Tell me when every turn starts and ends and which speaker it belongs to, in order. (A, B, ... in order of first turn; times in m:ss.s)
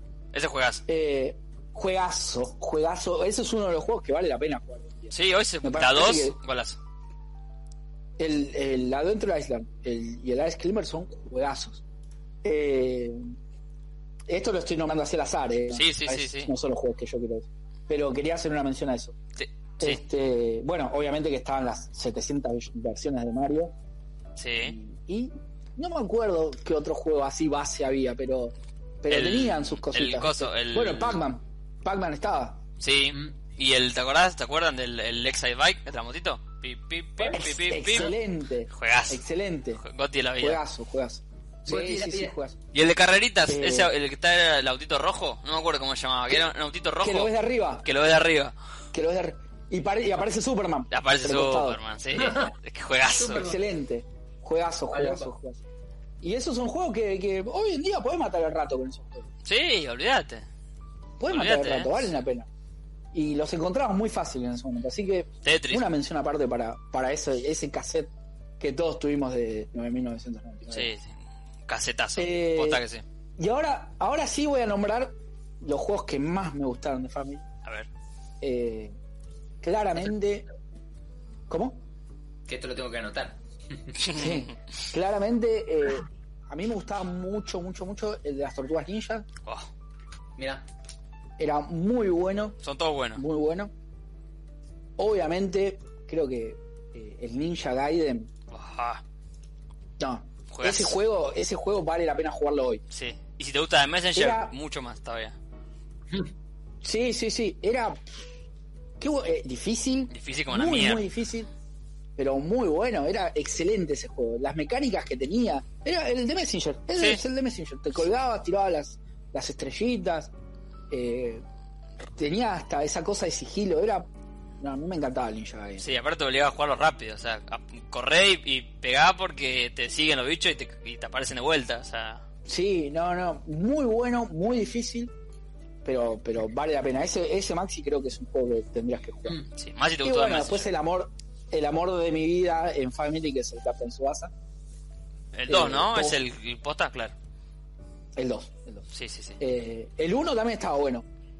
0:00.3-0:00.8 A
0:00.9-0:06.4 B
0:05.1-0:06.8 A
0:08.2-0:11.8 B
0:12.4-0:13.3 B
0:14.3-0:19.2 B
0:15.7-0:16.5 A
0:19.4-0:20.0 A
0:19.8-0:23.7 B
0:24.4-0:24.8 A
0:24.6-0:32.6 B
0:29.1-0:31.2 A
0:32.8-0:38.1 A
0:37.2-0:39.8 B
0:38.7-0:39.2 A
0:39.8-0:40.6 A
0:40.4-0:42.6 B
0:41.6-0:42.3 C
0:42.7-0:48.5 A
0:43.5-0:43.9 B
0:47.0-0:47.8 B
0:48.9-0:51.8 B
0:50.9-0:53.4 A
0:52.2-0:52.5 C
0:53.2-0:53.6 C
0:53.3-0:55.6 B
0:54.9-0:55.3 C
0:56.2-0:59.3 B
0:59.4-1:00.4 A
1:01.2-1:02.5 B
1:01.3-1:02.1 A
1:03.1-1:10.9 B
1:05.4-1:05.8 A
1:10.7-1:11.1 A
1:11.7-1:13.0 A
1:12.2-1:12.8 B
1:13.4-1:17.4 B
1:18.4-1:18.9 B
1:19.6-1:20.4 B
1:21.5-1:21.8 B
1:22.5-1:24.0 C
1:24.0-1:24.5 A
1:24.1-1:29.2 B
1:30.4-1:30.6 C
1:31.4-1:32.6 B
1:32.6-1:33.2 A
1:33.2-1:33.7 B
1:35.0-1:38.3 B
1:38.5-1:39.0 A
1:40.0-1:42.8 B
1:40.5-1:41.0 A
1:42.9-1:45.4 A
1:44.1-1:44.5 B
1:46.8-1:48.1 B
1:49.0-1:51.5 B
1:50.1-1:51.0 A
1:52.2-2:00.3 B
1:57.0-1:57.2 A
2:00.9-2:01.4 B
2:02.1-2:04.1 B
2:04.6-2:05.8 B
2:05.8-2:12.2 A
2:12.5-2:15.1 B
2:15.8-2:19.4 B
2:19.6-2:20.7 A
2:20.0-2:24.3 B
2:25.3-2:27.1 A
2:25.5-2:26.2 B
2:28.2-2:28.8 B
2:28.9-2:29.4 A
2:29.4-2:31.0 B